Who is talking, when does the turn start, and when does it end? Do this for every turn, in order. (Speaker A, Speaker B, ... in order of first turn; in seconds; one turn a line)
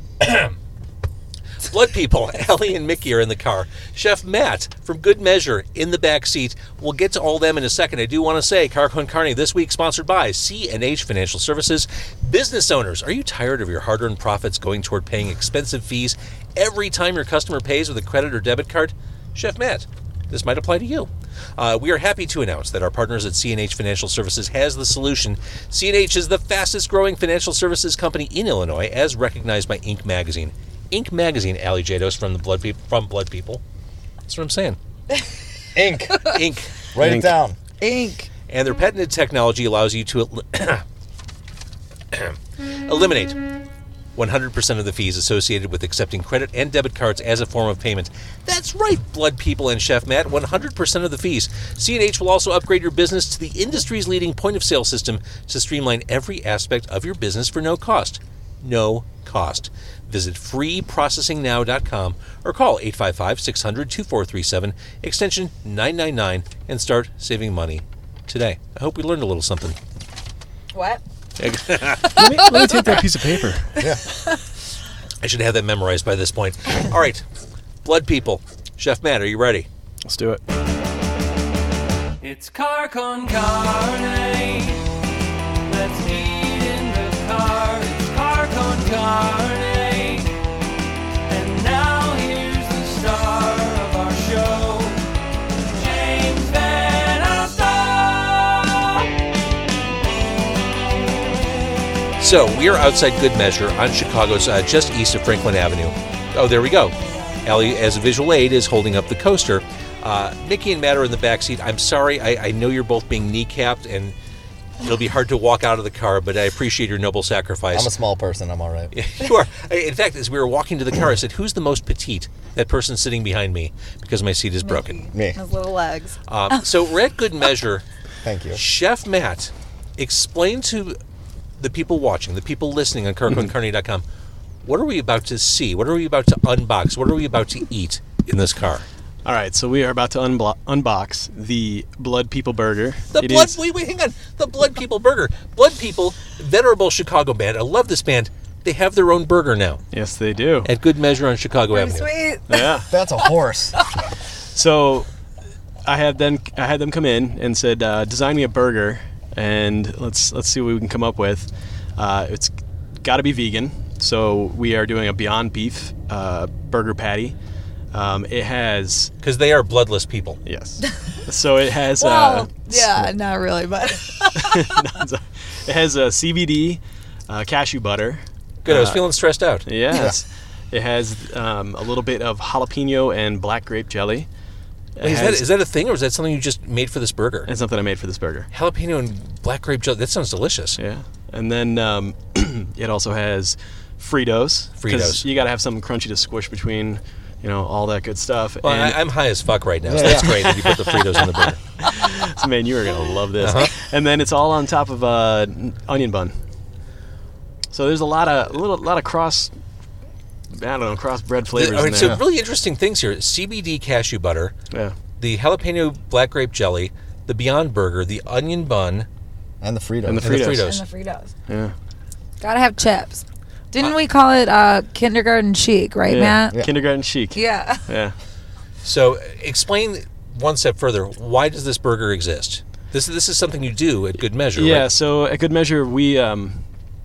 Speaker A: 0.2-0.6
Speaker A: 1.6-33.6
Speaker A: 34.3-34.8
Speaker B: 35.7-36.3
Speaker A: 36.2-36.7
Speaker B: 36.9-37.6
Speaker C: 37.0-37.3
Speaker D: 37.8-38.3
Speaker A: 38.5-40.8
Speaker A: 42.1-43.4
Speaker A: 44.1-69.8
Speaker D: 70.7-71.0
Speaker C: 71.4-73.7
Speaker A: 71.7-72.0
Speaker D: 72.0-73.0
Speaker D: 73.8-74.4
Speaker A: 75.2-77.2
Speaker A: 77.8-79.7
Speaker C: 80.0-80.4
Speaker E: 82.2-84.8
Speaker E: 85.7-90.3
Speaker E: 91.3-95.0
Speaker E: 95.7-99.1
Speaker A: 102.2-114.1
Speaker A: 114.8-117.9
Speaker B: 117.7-118.9
Speaker A: 118.9-125.0
Speaker D: 124.6-126.6
Speaker B: 125.1-125.4
Speaker A: 126.3-127.8
Speaker B: 128.2-128.6
Speaker A: 128.5-131.0
Speaker A: 131.6-134.0
Speaker A: 134.6-138.8
Speaker C: 139.2-143.6
Speaker A: 143.1-149.8
Speaker C: 149.9-150.7
Speaker A: 150.6-152.1
Speaker D: 151.7-152.8
Speaker C: 152.5-152.9
Speaker B: 152.9-153.8
Speaker C: 154.5-155.1
Speaker C: 155.8-162.5
Speaker C: 163.0-167.3
Speaker C: 167.9-169.1
Speaker A: 169.2-170.4
Speaker C: 170.4-173.1
Speaker D: 172.0-174.8
Speaker C: 174.3-179.1
Speaker A: 178.6-179.7
Speaker C: 179.7-184.3
Speaker C: 185.0-185.4
Speaker A: 185.0-187.5
Speaker C: 187.5-188.5
Speaker A: 188.5-190.8
Speaker C: 190.8-199.0
Speaker A: 194.8-195.2
Speaker A: 198.6-201.6
Speaker B: 199.8-200.5
Speaker C: 199.9-206.3
Speaker A: 203.4-203.7
Speaker C: 207.7-209.5
Speaker C: 210.5-212.2
Speaker A: 211.5-214.5
Speaker B: 212.0-212.2
Speaker A: 215.2-219.1
Speaker B: 219.6-220.5
Speaker C: 220.1-220.6
Speaker A: 220.2-220.8
Speaker D: 220.6-221.3
Speaker C: 221.5-221.7
Speaker D: 222.4-226.6
Speaker C: 226.1-228.1
Speaker D: 227.3-227.8
Speaker A: 228.8-234.9
Speaker C: 234.6-236.6